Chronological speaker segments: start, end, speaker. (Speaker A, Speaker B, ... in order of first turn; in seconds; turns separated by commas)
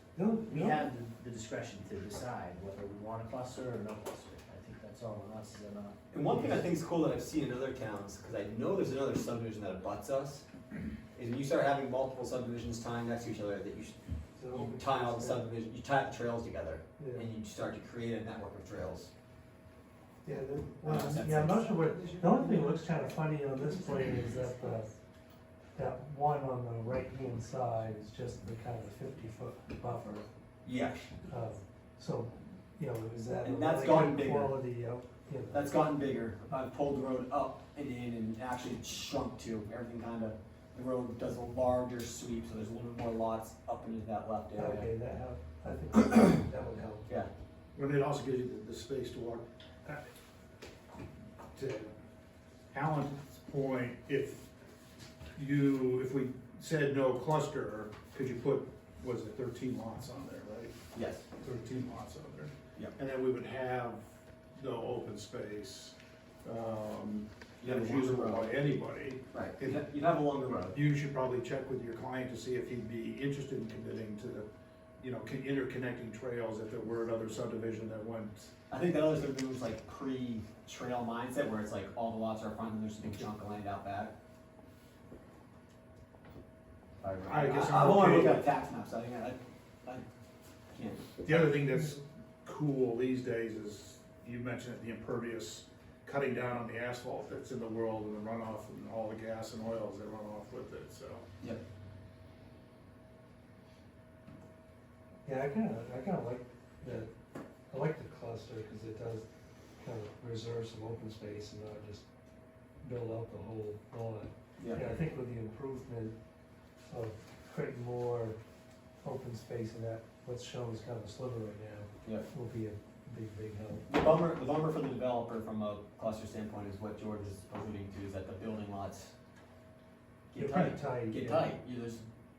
Speaker A: 0.1-0.9, Speaker B: 0.5-6.0, Speaker C: 6.1-10.4, Speaker C: 11.1-13.9, Speaker A: 14.4-15.4, Speaker C: 14.5-19.1, Speaker A: 17.0-17.3, Speaker A: 20.2-24.9, Speaker C: 20.8-22.6, Speaker A: 25.7-30.3, Speaker C: 30.6-31.1, Speaker A: 31.2-35.6, Speaker C: 33.4-34.5, Speaker C: 35.5-44.9, Speaker A: 44.5-47.1, Speaker D: 47.7-50.1, Speaker D: 51.5-51.9, Speaker D: 52.7-54.5, Speaker D: 55.4-60.7, Speaker C: 60.9-61.2, Speaker D: 61.4-69.8, Speaker C: 67.6-68.5, Speaker C: 69.3-70.8, Speaker D: 70.7-74.5, Speaker D: 75.0-78.5, Speaker C: 78.7-84.1, Speaker C: 87.0-90.0, Speaker D: 87.3-88.5, Speaker C: 90.7-91.0, Speaker D: 91.2-101.2, Speaker A: 105.2-107.1, Speaker A: 107.7-109.2, Speaker A: 109.8-112.0, Speaker A: 112.8-116.1, Speaker C: 114.6-114.9, Speaker A: 116.9-118.4, Speaker A: 119.0-123.9, Speaker C: 123.8-129.1, Speaker C: 130.3-132.0, Speaker A: 130.3-131.5